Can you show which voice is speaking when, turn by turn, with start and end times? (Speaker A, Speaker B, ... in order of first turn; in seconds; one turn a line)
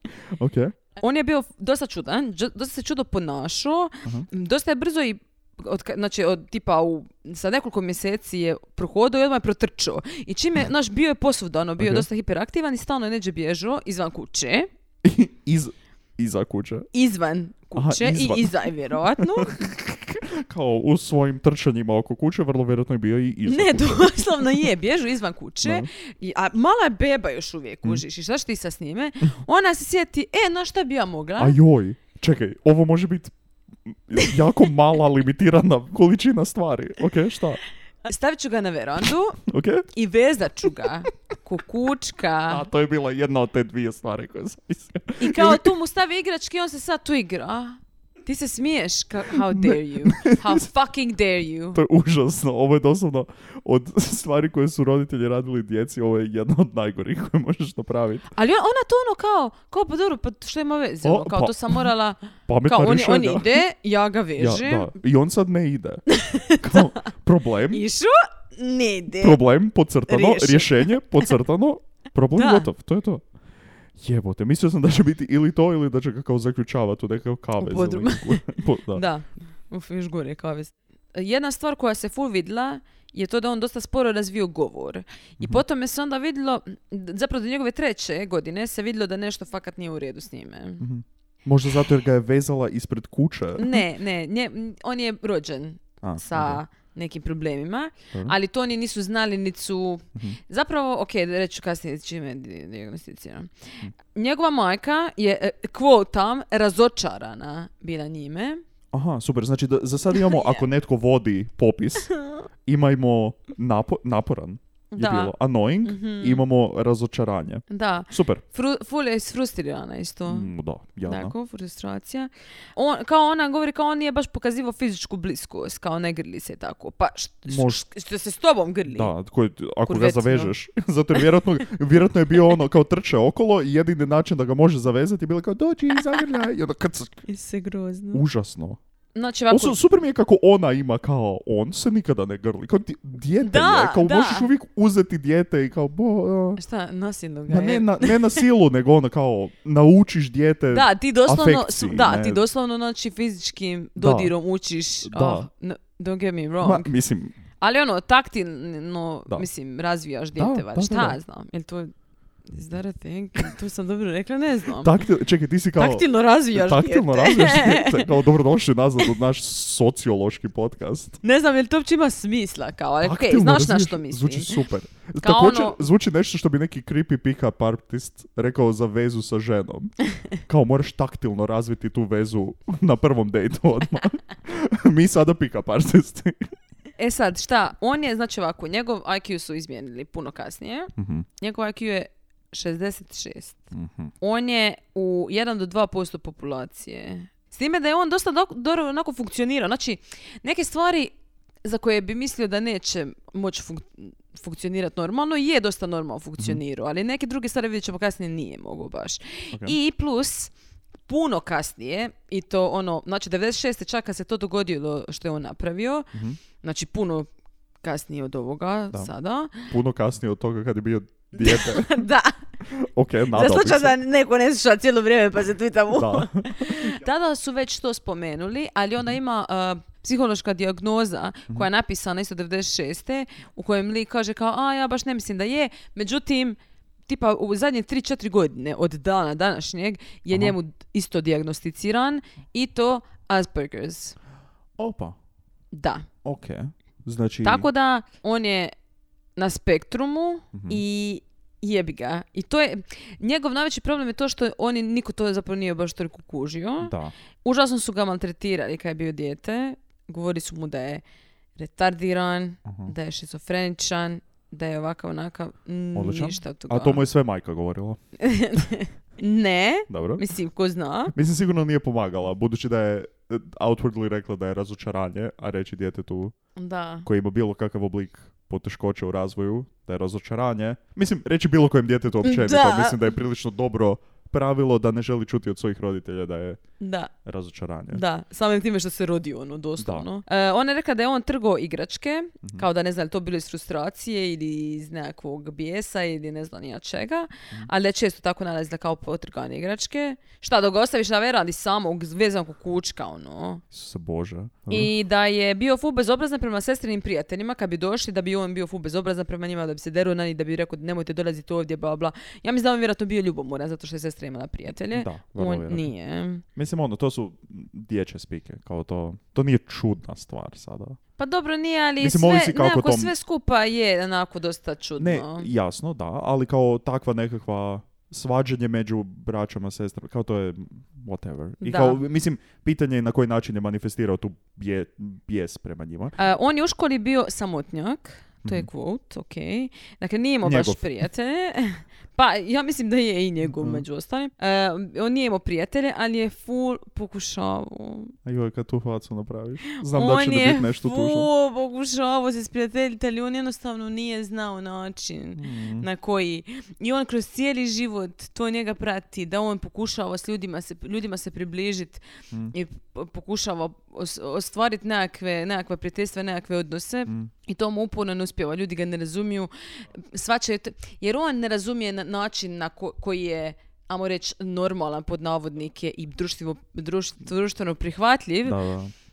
Speaker A: 0.3-0.8
Speaker B: 1.0-14.7
Speaker A: 11.8-12.1
Speaker A: 15.0-16.9
Speaker B: 16.9-19.6
Speaker A: 17.8-24.6
Speaker B: 23.5-31.6
Speaker A: 25.6-25.9
Speaker A: 31.4-33.3
Speaker A: 33.9-37.6
Speaker B: 38.0-39.4
Speaker A: 39.5-39.9
Speaker B: 39.9-42.7
Speaker A: 42.5-45.7
Speaker B: 45.2-51.8
Speaker A: 49.3-50.7
Speaker A: 51.8-58.3
Speaker B: 58.3-64.9
Speaker A: 61.0-61.9
Speaker A: 62.5-63.6
Speaker A: 64.4-67.8
Speaker B: 66.1-67.1
Speaker B: 67.7-69.4
Speaker A: 69.2-73.2
Speaker B: 70.1-71.3
Speaker B: 72.3-72.7
Speaker A: 74.0-79.0
Speaker B: 77.6-90.8
Speaker A: 90.8-93.8
Speaker B: 93.6-108.6
Speaker A: 96.0-96.6
Speaker A: 108.9-112.1
Speaker B: 110.2-110.6
Speaker A: 112.7-118.4
Speaker B: 114.9-115.3
Speaker B: 115.8-116.4
Speaker B: 117.7-120.5
Speaker A: 120.3-121.3
Speaker B: 121.1-129.1
Speaker A: 127.5-127.8
Speaker A: 128.9-137.2
Speaker B: 129.9-130.5
Speaker B: 137.3-138.2
Speaker A: 138.1-138.8
Speaker B: 139.2-139.8
Speaker A: 139.5-146.6
Speaker B: 143.4-144.5
Speaker B: 146.6-148.4
Speaker A: 147.5-152.4
Speaker B: 150.7-156.9
Speaker A: 154.0-154.3
Speaker A: 155.0-155.5
Speaker A: 156.6-157.3
Speaker B: 157.6-161.9
Speaker A: 160.4-161.2
Speaker B: 162.5-164.9
Speaker A: 164.8-171.2
Speaker B: 165.8-168.1
Speaker B: 171.2-174.6
Speaker A: 173.0-186.4
Speaker B: 175.2-175.8
Speaker B: 187.0-201.1
Speaker A: 191.0-191.3
Speaker A: 193.7-194.1
Speaker B: 201.6-210.5
Speaker B: 211.1-217.3
Speaker A: 216.1-216.4
Speaker B: 217.8-219.7
Speaker A: 219.6-222.0
Speaker B: 221.3-222.4
Speaker A: 222.7-223.9
Speaker B: 223.3-244.2
Speaker A: 225.9-226.9
Speaker A: 244.8-245.2
Speaker B: 245.7-246.1
Speaker A: 246.2-247.7
Speaker B: 247.4-248.8
Speaker B: 249.4-261.0
Speaker A: 250.5-250.8
Speaker A: 256.8-257.1
Speaker B: 261.6-267.1
Speaker A: 262.7-262.9
Speaker A: 265.9-268.0
Speaker B: 268.2-271.1
Speaker A: 269.9-270.2
Speaker A: 271.1-276.4
Speaker B: 276.6-277.1
Speaker A: 277.1-286.6
Speaker B: 282.2-283.1
Speaker B: 286.8-287.1
Speaker A: 287.2-288.0
Speaker B: 287.9-303.6
Speaker A: 289.8-290.1
Speaker A: 303.7-304.9
Speaker B: 304.7-316.4
Speaker A: 314.9-315.9
Speaker A: 316.6-321.0
Speaker B: 321.2-325.5
Speaker A: 322.0-323.1
Speaker A: 325.0-336.2
Speaker B: 331.6-332.0
Speaker B: 336.2-348.1
Speaker A: 338.4-338.7
Speaker A: 340.4-340.8
Speaker A: 343.4-343.8
Speaker A: 348.2-351.3
Speaker B: 349.8-378.6
Speaker A: 355.4-355.9
Speaker A: 378.4-378.9